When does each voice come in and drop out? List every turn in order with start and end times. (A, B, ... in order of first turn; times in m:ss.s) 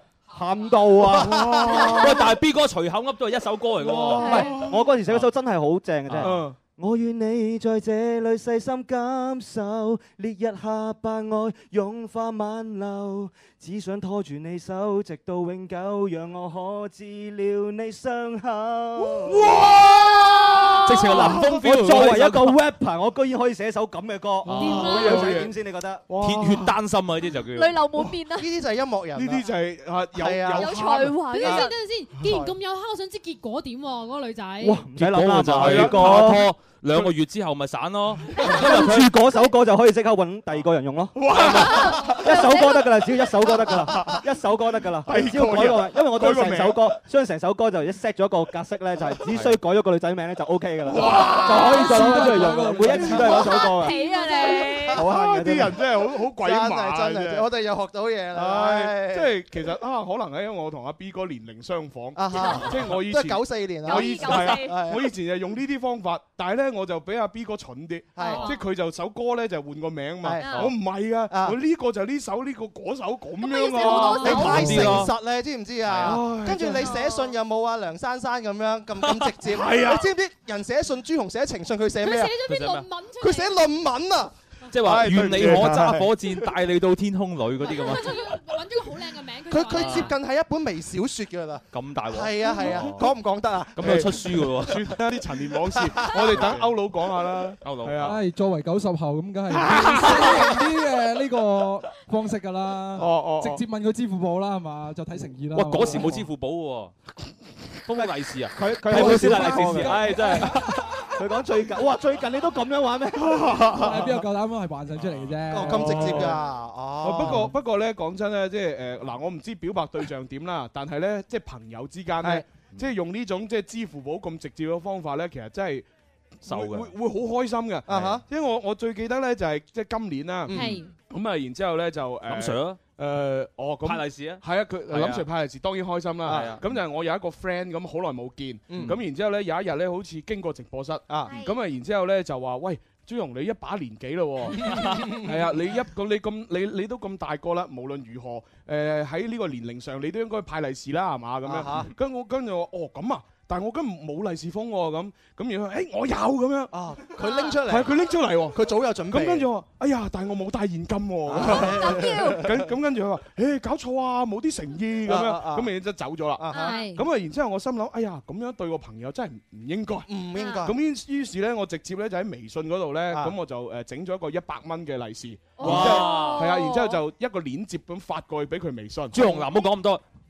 0:00.3-0:01.5 A
0:01.0-0:02.2 B
0:01.2-0:02.1 C
0:02.0-0:04.4 D
0:03.8-0:04.9 B
0:04.0-0:04.5 E
0:04.7-0:19.5 A
0:06.1-0:06.4 D
0:06.2-0:06.6 B
0:19.0-0:21.7 B
0:20.8-0:22.6 D
0:21.0-0:26.0 A
0:24.4-0:25.5 B
0:24.6-0:25.4 F
0:26.1-0:26.8 B
0:26.1-0:27.8 D
0:27.5-0:28.5 E
0:28.3-0:29.5 C
0:29.2-0:31.2 B
0:30.1-0:30.8 C
0:30.5-0:31.7 E
0:31.3-0:34.8 F
0:31.4-0:31.7 C
0:32.2-0:32.5 C
0:34.6-0:36.5 A
0:35.0-0:39.1 D
0:35.6-0:36.3 B
0:38.3-0:38.7 B
0:38.5-0:41.3 A
0:41.1-0:42.3 B
0:41.3-0:41.8 D
0:41.7-0:43.7 E
0:42.2-0:53.9 A
0:43.9-0:44.2 B
0:45.0-0:47.0 B
0:49.2-0:49.6 B
0:50.8-0:53.4 B
0:51.2-0:51.6 E
0:51.7-0:53.3 G
0:53.2-0:55.1 E
0:54.9-0:57.4 B
0:55.0-0:55.8 A
0:56.4-0:59.3 C
0:58.3-1:15.0 B
1:02.2-1:05.1 C
1:02.3-1:02.7 E
1:03.8-1:04.8 E
1:08.2-1:08.5 C
1:08.2-1:08.6 E
1:10.2-1:10.6 C
1:10.4-1:10.7 E
1:11.3-1:11.6 C
1:13.4-1:14.7 E
1:13.7-1:14.6 F
1:14.1-1:22.4 C
1:14.2-1:15.1 D
1:16.0-1:16.9 B
1:16.8-1:17.3 E
1:19.0-1:19.3 D
1:19.5-1:20.1 B
1:22.0-1:23.6 F
1:22.4-1:22.8 D
1:23.2-1:24.3 C
1:24.7-1:28.2 D
1:24.8-1:26.4 B
1:25.3-1:25.6 C
1:27.6-1:30.1 F
1:29.5-1:34.4 C
1:29.7-1:30.1 D
1:31.7-1:33.1 D
1:32.7-1:33.0 B
1:33.8-1:35.0 D
1:33.8-1:38.2 B
1:35.7-1:36.6 C
1:36.3-1:36.7 D
1:37.6-1:38.2 D
1:38.0-1:46.2 G
1:39.5-1:40.5 B
1:43.0-1:43.6 B
1:45.5-1:46.9 D
1:47.8-1:50.7 D
1:48.0-1:50.5 A
1:48.8-1:50.5 G
1:51.2-1:53.6 A
1:53.2-1:54.1 B
1:53.7-1:56.3 G
1:55.5-1:57.5 C
1:55.6-1:56.4 B
1:57.0-2:05.9 B
2:06.4-2:36.7 B
2:06.4-2:06.9 D
2:07.9-2:08.2 C
2:10.4-2:10.8 C
2:10.5-2:10.9 F
2:12.3-2:12.8 D
2:13.8-2:15.3 D
2:16.2-2:16.6 C
2:16.2-2:16.8 D
2:18.7-2:19.0 C
2:21.1-2:21.3 C
2:21.2-2:21.6 E
2:24.7-2:25.4 C
2:31.4-2:31.9 C
2:36.7-2:37.9 C
2:37.2-2:37.6 E
2:37.6-2:38.6 B
2:38.5-2:39.5 C
2:39.1-2:50.1 B
2:41.3-2:42.6 C
2:41.6-2:42.4 E
2:45.0-2:45.7 C
2:46.3-2:46.8 C
2:46.5-2:47.0 E
2:46.5-2:47.0 F
2:50.1-2:50.8 C
2:50.3-2:50.6 E
2:50.6-2:59.3 B
2:55.6-2:57.0 E
2:55.6-2:56.5 D
2:59.1-3:00.0 D